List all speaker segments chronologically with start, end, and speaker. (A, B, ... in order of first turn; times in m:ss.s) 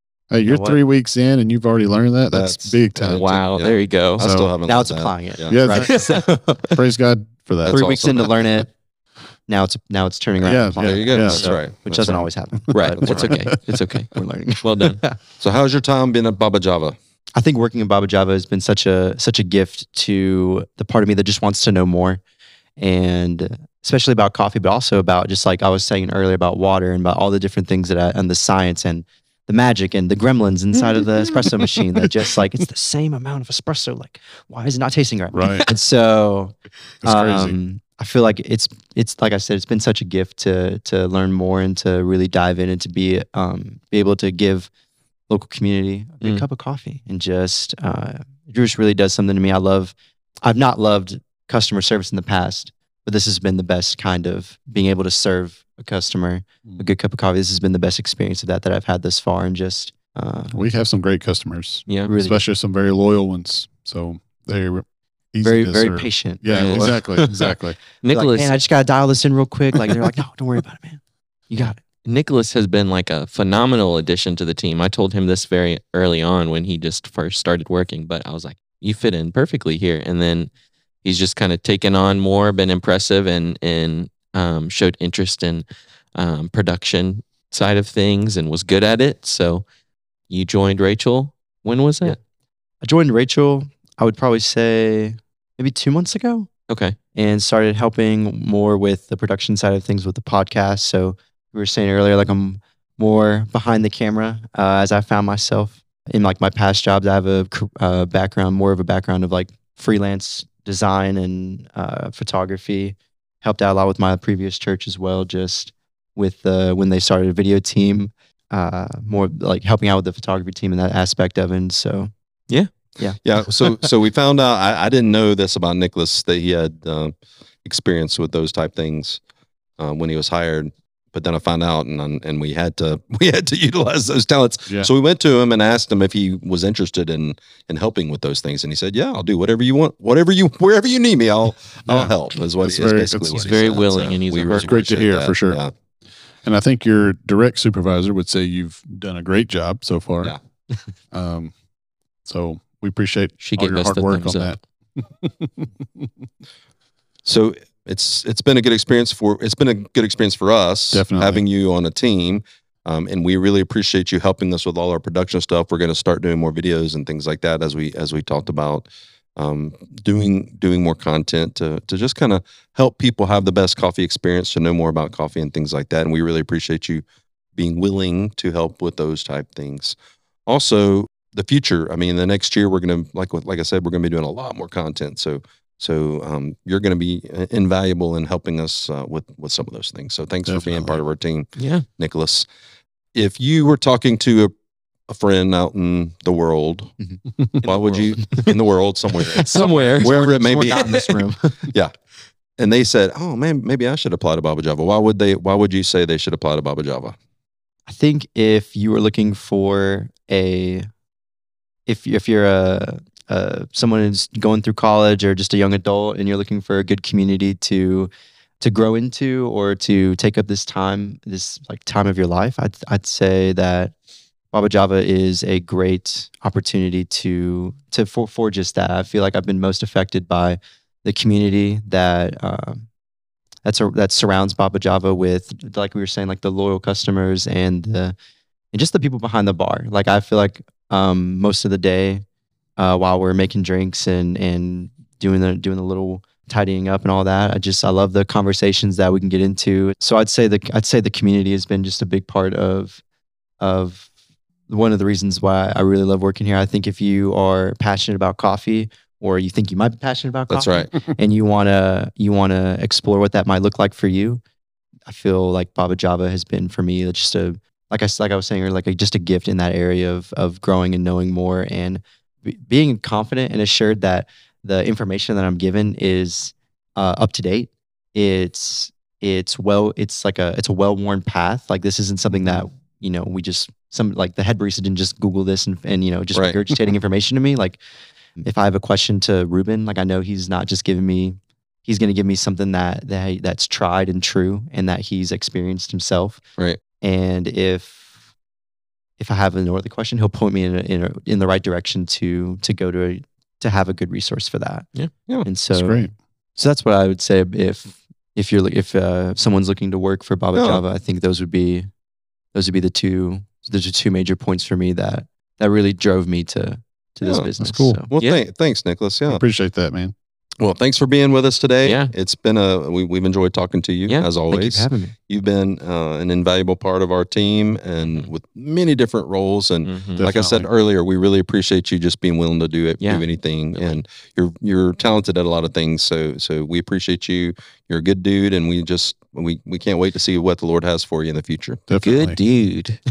0:00.3-0:03.4 A
0:00.4-0:00.8 B
0:02.3-0:05.6 C
0:03.1-0:04.3 D
0:04.2-0:04.5 A
0:04.6-0:06.8 B
0:05.3-0:08.2 A
0:05.7-0:06.6 D
0:07.6-0:08.3 C
0:07.7-0:08.7 B
0:09.5-0:13.3 B
0:10.4-0:13.5 A
0:10.8-0:13.3 C
0:13.0-0:14.1 D
0:14.1-0:15.2 B
0:14.6-0:15.0 D
0:15.4-0:17.0 C
0:17.4-0:22.2 B
0:22.8-0:44.7 B
0:35.3-0:35.7 A
0:37.0-0:37.6 A
0:45.3-1:00.6 B
1:00.5-1:07.8 A
1:01.9-1:02.1 D
1:02.0-1:02.4 B
1:05.4-1:07.5 B
1:06.5-1:07.2 D
1:08.0-1:08.5 D
1:08.1-1:11.8 B
1:12.0-1:20.5 D
1:21.0-1:29.6 D
1:30.3-1:32.2 D
1:32.8-1:36.5 B
1:36.7-1:37.0 D
1:37.1-2:02.1 B
2:03.0-2:03.8 B
2:03.2-2:07.1 C
2:07.6-2:09.2 C
2:09.8-2:25.7 C
2:21.9-2:23.9 A
2:23.3-2:24.8 D
2:24.5-2:25.6 A
2:26.4-2:30.3 A
2:31.1-2:31.5 A
2:32.2-2:36.1 A
2:33.4-2:34.6 D
2:37.2-2:57.0 C
2:40.9-2:41.4 A
2:57.6-2:59.9 C
3:00.5-3:12.4 C
3:10.5-3:11.0 A
3:11.6-3:11.8 D
3:13.1-3:14.5 C
3:15.1-3:16.9 C
3:17.0-3:18.5 B
3:17.6-3:20.9 C
3:19.2-3:21.6 B
3:19.3-3:21.2 D
3:22.6-3:27.1 C
3:27.9-3:30.8 B
3:31.9-3:43.9 B
3:44.5-3:52.8 B
3:53.6-3:58.1 B
3:58.7-4:02.2 B
4:02.8-4:13.0 B
4:13.6-4:14.1 B
4:14.7-4:24.4 B
4:20.5-4:21.0 C
4:25.1-4:47.8 B
4:46.3-4:46.6 C
4:48.4-4:56.4 B
4:57.0-4:58.1 B
4:59.2-5:04.9 B
5:05.4-5:11.9 B
5:05.7-5:06.1 A
5:10.5-5:10.8 C
5:12.5-5:18.1 B
5:17.2-5:17.5 C
5:17.6-5:18.0 A
5:18.1-5:19.4 C
5:19.3-5:20.1 A
5:20.6-5:41.8 C
5:21.8-5:22.1 D
5:24.5-5:25.1 B
5:29.8-5:30.3 D
5:30.1-5:30.7 A
5:33.0-5:34.0 D
5:41.9-5:42.4 A
5:42.0-5:43.0 D